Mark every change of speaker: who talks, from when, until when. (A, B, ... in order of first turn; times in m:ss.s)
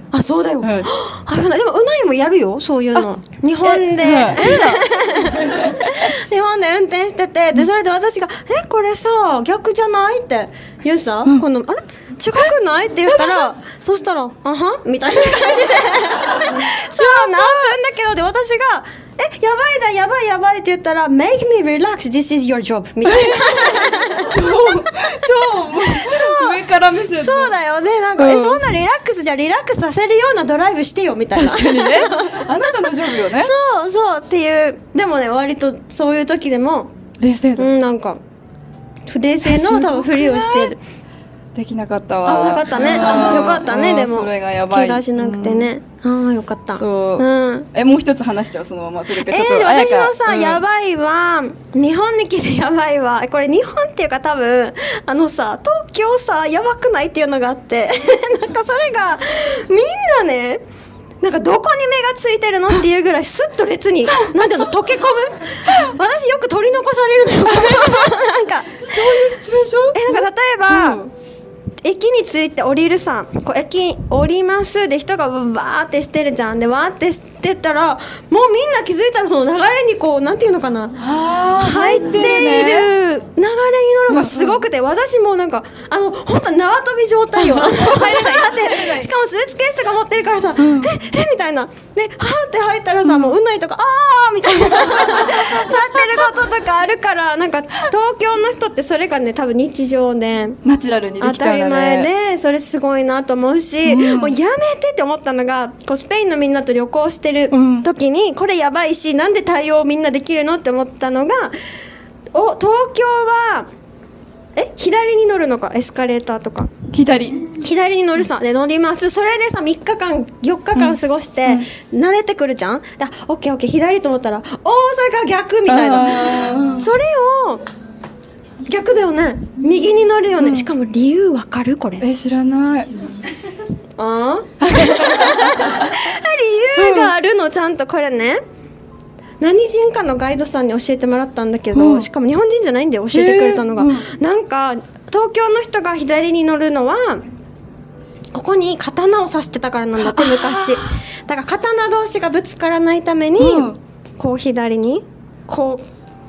0:00.1-0:24.4 A
0:00.6-0:00.9 B
0:03.0-0:04.9 B
0:05.4-0:05.7 B
0:13.1-0:13.5 B
0:16.6-0:17.8 B
0:23.0-0:27.6 B
0:26.0-0:26.6 A
0:27.2-0:32.4 A
0:28.2-0:28.6 B
0:31.4-0:33.5 B
0:33.4-0:36.9 A
0:37.2-0:37.7 B
0:37.6-0:38.2 A
0:39.1-0:40.8 A
0:39.4-0:40.8 B
0:41.6-0:45.7 B
0:42.3-0:47.7 A
0:46.8-0:50.6 B
0:49.2-1:00.6 A
1:01.2-1:09.0 A
1:07.5-1:08.1 B
1:08.8-1:11.1 B
1:10.0-1:11.0 A
1:11.8-1:21.0 A
1:21.0-1:22.9 B
1:21.6-1:40.6 A
1:24.1-1:24.6 B
1:27.4-1:29.1 B
1:30.6-1:30.9 B
1:33.0-1:33.4 B
1:34.7-1:35.7 B
1:40.6-1:42.1 B
1:41.2-1:51.6 A
1:43.8-1:44.4 B
1:47.5-1:47.9 B
1:52.3-1:53.7 A
1:54.6-1:56.7 A
1:56.9-1:57.5 B
1:57.6-2:07.6 A
2:00.8-2:01.7 B
2:05.7-2:06.9 B
2:08.6-2:12.0 A
2:10.4-2:10.7 B
2:12.0-2:12.9 B
2:14.0-2:18.4 A
2:14.6-2:15.9 B
2:16.8-2:17.1 B
2:19.4-2:27.2 A
2:21.7-2:22.1 B
2:23.1-2:24.1 B
2:28.3-2:35.8 A
2:30.0-2:31.0 B
2:33.4-2:33.8 B